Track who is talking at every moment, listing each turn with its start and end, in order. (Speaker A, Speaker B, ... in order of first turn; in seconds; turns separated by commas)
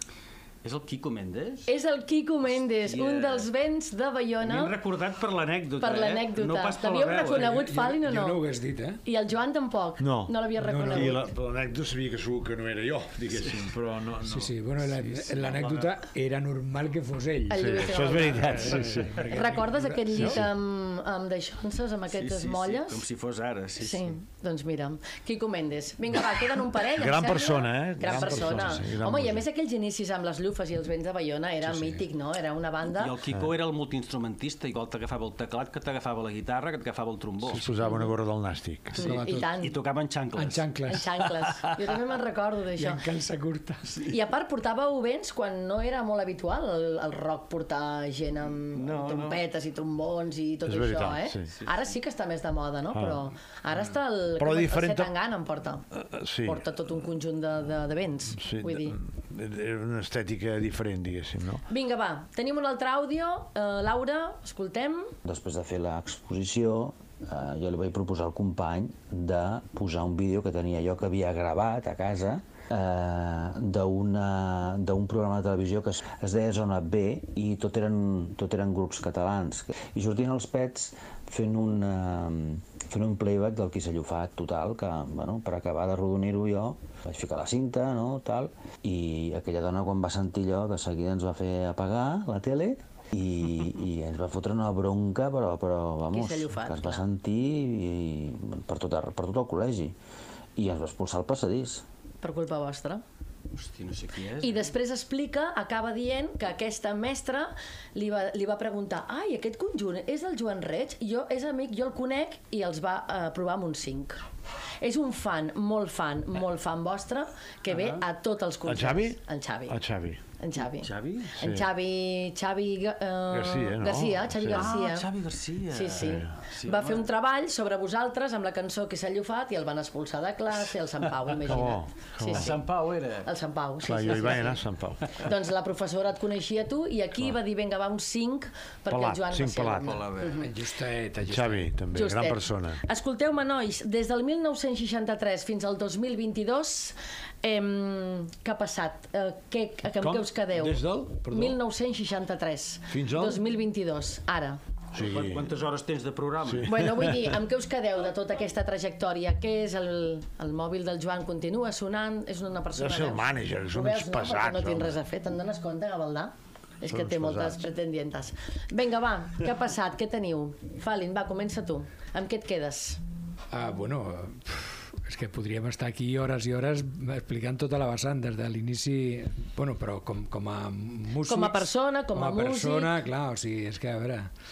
Speaker A: 0.6-1.7, Speaker B: 1.6-4.7, Speaker A: 2.7-3.5, Speaker A: 4.4-7.5, Speaker B: 5.8-8.4, Speaker C: 7.3-9.0, Speaker B: 9.0-11.3, Speaker D: 10.0-14.9, Speaker C: 10.6-11.2, Speaker C: 14.2-20.4, Speaker A: 15.1-15.9, Speaker B: 17.5-18.8, Speaker D: 17.5-19.2, Speaker B: 19.3-23.0, Speaker A: 22.1-24.2, Speaker B: 23.8-33.1, Speaker D: 26.9-29.4, Speaker A: 32.9-37.6, Speaker D: 37.5-39.0, Speaker B: 38.9-39.7, Speaker C: 39.0-39.5, Speaker A: 39.6-40.8, Speaker C: 40.4-41.1, Speaker B: 40.9-43.0, Speaker C: 42.8-44.1, Speaker B: 44.1-55.8, Speaker A: 48.7-49.4, Speaker D: 50.6-51.5, Speaker D: 52.9-53.2, Speaker D: 54.4-55.1, Speaker D: 55.9-56.6, Speaker B: 56.4-59.0, Speaker D: 58.3-61.6, Speaker B: 61.7-65.1, Speaker E: 65.2-99.9, Speaker B: 96.1-97.0, Speaker E: 100.5-101.8, Speaker B: 102.2-103.0, Speaker A: 103.5-104.7, Speaker B: 104.4-114.2, Speaker B: 114.8-119.8, Speaker A: 117.7-118.0, Speaker D: 118.7-120.2, Speaker B: 120.4-125.1, Speaker A: 120.8-121.3, Speaker D: 121.4-121.7, Speaker D: 123.3-124.7, Speaker A: 124.5-127.0, Speaker B: 125.7-132.5, Speaker D: 126.0-126.3, Speaker D: 131.4-132.6, Speaker A: 132.3-133.3, Speaker B: 133.2-134.6, Speaker D: 133.8-135.2, Speaker B: 135.2-140.5, Speaker D: 138.9-140.0, Speaker A: 139.8-140.4, Speaker C: 140.4-141.7, Speaker D: 141.2-142.8, Speaker B: 141.9-154.6, Speaker D: 150.0-151.6, Speaker D: 152.9-153.4, Speaker D: 154.9-155.5, Speaker A: 154.9-156.7, Speaker D: 156.4-157.3, Speaker B: 156.7-173.0, Speaker D: 162.7-165.0, Speaker D: 166.8-167.7, Speaker C: 173.5-184.3, Speaker B: 181.2-183.0